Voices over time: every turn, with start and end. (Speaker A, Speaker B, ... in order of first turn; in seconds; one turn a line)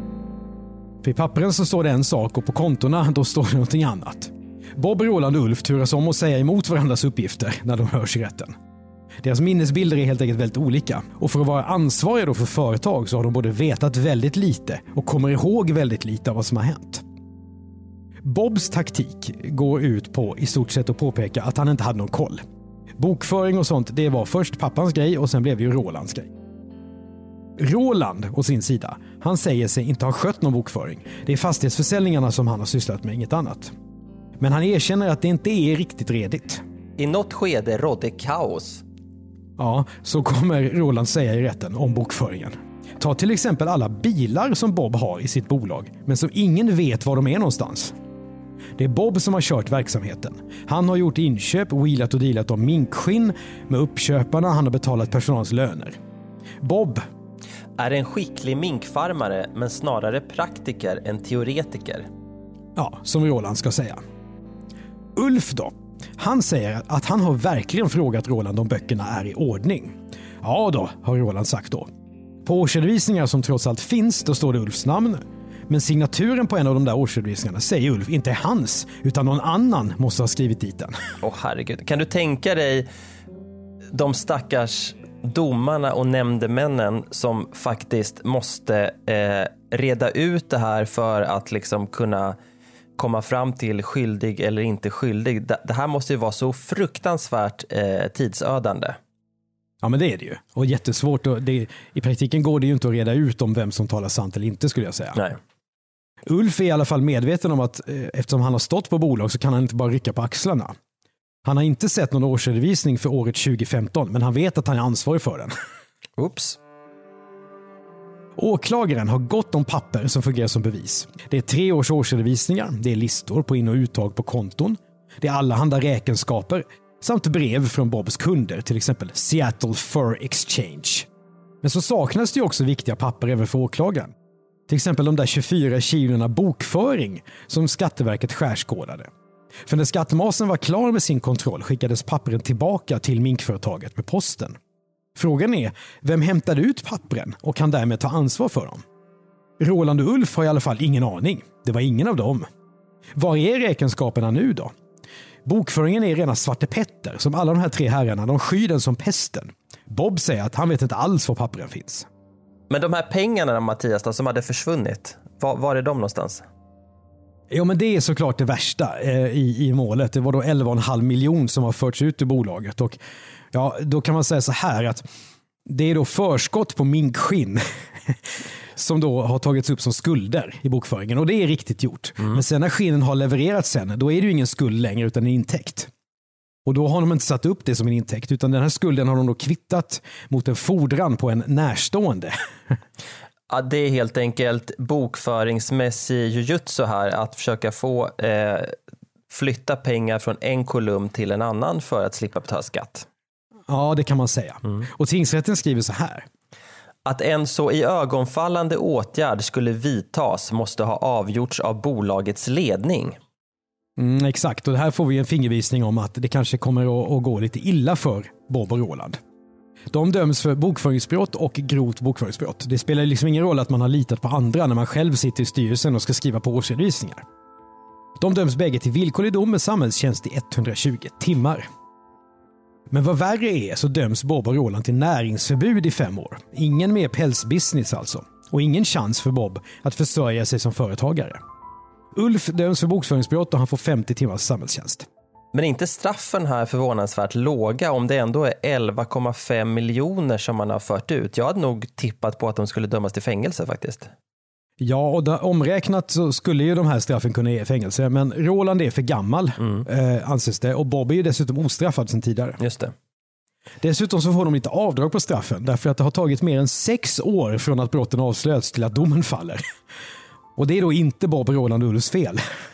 Speaker A: 1.0-8.6
Speaker A: 9.2-17.0
Speaker A: 18.2-22.4
Speaker A: 23.0-26.3
Speaker A: 27.6-33.7
Speaker A: 34.4-36.6
Speaker B: 37.0-38.8
Speaker A: 39.6-47.9
Speaker A: 48.8-56.0
Speaker A: 56.6-57.0
Speaker B: 57.8-62.1
Speaker A: 62.8-64.0
Speaker A: 65.2-71.9
Speaker A: 72.5-81.0
Speaker B: 81.2-82.9
Speaker B: 83.9-92.4
Speaker B: 93.0-99.0
Speaker A: 99.8-105.2
Speaker A: 106.3-110.7
Speaker A: 111.5-115.5
Speaker B: 116.2-116.6
Speaker A: 118.4-131.1
Speaker A: 131.6-134.1
Speaker A: 134.7-139.1
Speaker A: 139.7-144.6
Speaker A: 145.2-148.8
Speaker A: 149.6-152.5
Speaker A: 153.2-154.7
Speaker A: 155.4-162.1
Speaker B: 162.7-166.4
Speaker A: 167.5-173.0
Speaker A: 173.5-175.0
Speaker A: 175.7-185.9
Speaker A: 186.7-192.8
Speaker B: 193.5-198.8
Speaker B: 199.3-203.1
Speaker A: 203.7-206.3
Speaker B: 207.1-213.2
Speaker A: 214.0-219.2
Speaker A: 219.9-227.2
Speaker A: 228.2-231.7
Speaker A: 232.9-241.4
Speaker A: 242.1-245.1
Speaker B: 245.5-254.1
Speaker A: 254.8-262.6
Speaker B: 262.6-262.9
Speaker A: 263.8-269.6
Speaker A: 270.6-272.4